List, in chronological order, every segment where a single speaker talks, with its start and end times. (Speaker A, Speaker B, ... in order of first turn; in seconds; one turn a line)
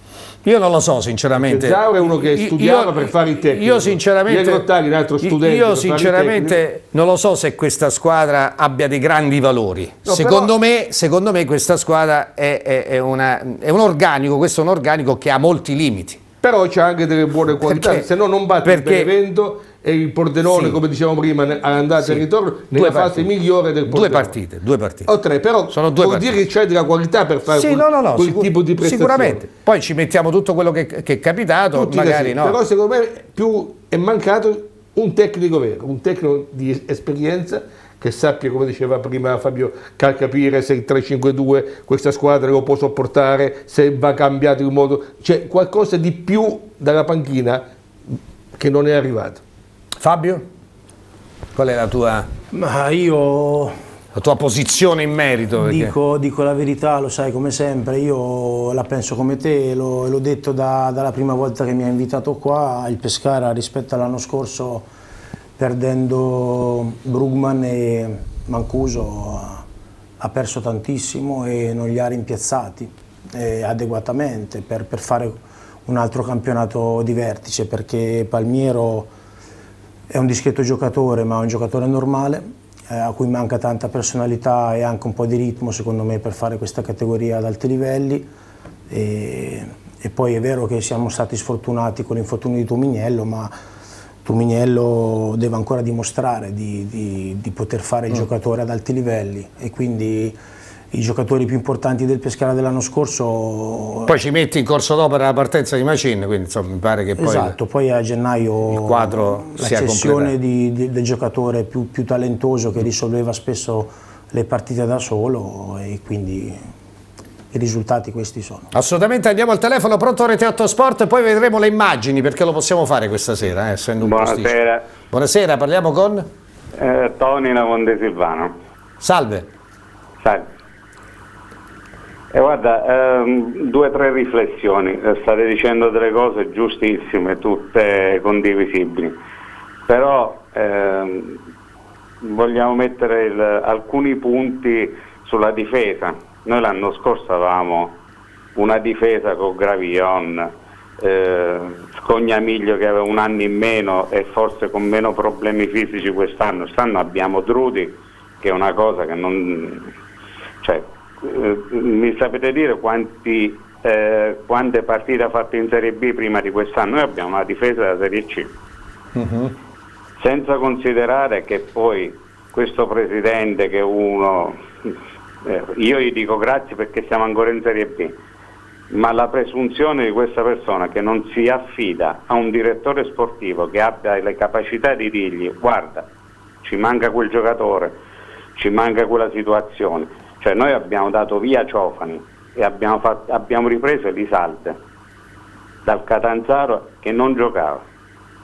Speaker A: 0.4-4.6
Speaker B: 1.4-6.6
Speaker A: 5.2-16.2
Speaker B: 10.1-10.5
Speaker B: 16.4-24.3
Speaker A: 17.7-18.0
Speaker A: 18.6-19.1
Speaker A: 20.4-20.8
Speaker A: 22.0-23.3
Speaker A: 23.8-25.1
Speaker B: 25.1-29.4
Speaker A: 25.7-26.4
Speaker A: 27.5-32.6
Speaker B: 31.7-47.6
Speaker B: 48.6-49.4
Speaker A: 50.0-50.4
Speaker A: 51.5-52.3
Speaker C: 52.5-53.7
Speaker A: 54.1-55.9
Speaker C: 55.6-64.9
Speaker C: 65.6-69.6
Speaker C: 70.2-79.1
Speaker C: 80.1-88.3
Speaker C: 88.9-93.5
Speaker C: 94.2-100.3
Speaker C: 100.9-104.1
Speaker A: 104.1-107.5
Speaker C: 107.2-116.6
Speaker A: 108.7-110.3
Speaker C: 117.5-118.7
Speaker A: 118.7-124.5
Speaker D: 124.0-124.8
Speaker A: 125.1-126.2
Speaker D: 126.7-128.5
Speaker A: 129.0-129.5
Speaker D: 130.2-130.5
Speaker D: 132.3-139.2
Speaker D: 139.9-141.3
Speaker D: 142.2-147.9
Speaker D: 148.6-159.9
Speaker D: 160.6-168.5
Speaker A: 169.1-169.5
Speaker D: 170.2-174.9
Speaker D: 175.4-178.2
Speaker D: 178.9-186.1
Speaker D: 186.6-188.0
Speaker D: 188.6-194.8
Speaker D: 195.8-197.8